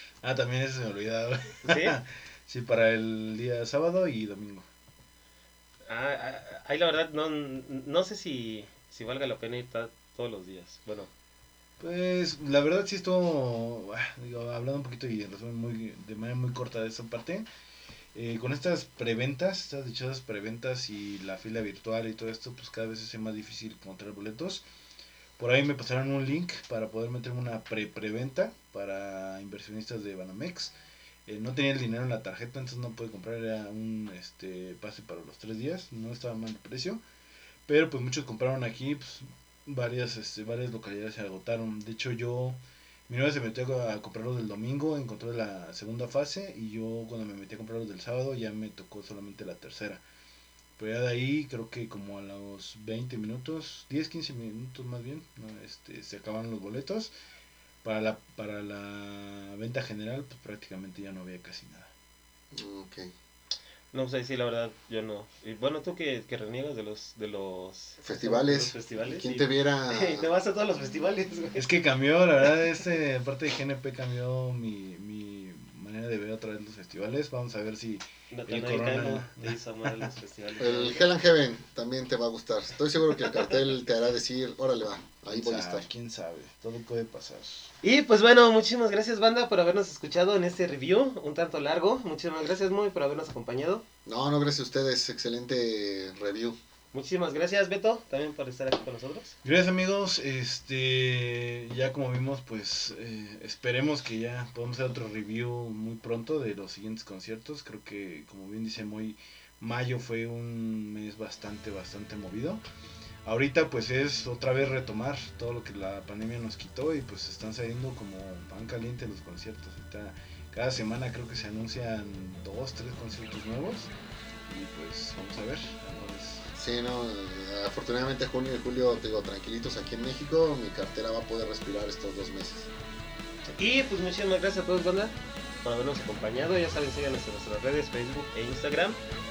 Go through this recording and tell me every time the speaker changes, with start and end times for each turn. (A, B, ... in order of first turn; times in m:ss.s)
0:00.2-0:04.6 A
0:01.6-0:02.0 B
0:05.9-0:11.1 B
0:11.8-0:17.4 A
0:18.1-0:24.6 A
0:25.4-0:30.7 A
0:31.3-0:37.0 A
0:37.7-0:42.6 A
0:43.1-0:50.0 A
0:50.8-0:57.1 A
0:57.8-1:01.9 A
1:02.5-1:03.1 C
1:03.9-1:11.6 B
1:08.0-1:10.3 C
1:11.6-1:20.1 A
1:18.3-1:21.1 B
1:20.6-1:25.9 C
1:25.3-1:27.7 A
1:27.8-1:33.8 B
1:34.0-1:36.6 C
1:36.9-1:39.3 B
1:39.4-1:52.6 A
1:53.2-2:03.9 A
2:04.5-2:06.5 A
2:06.5-2:12.7 C
2:13.6-2:19.0 B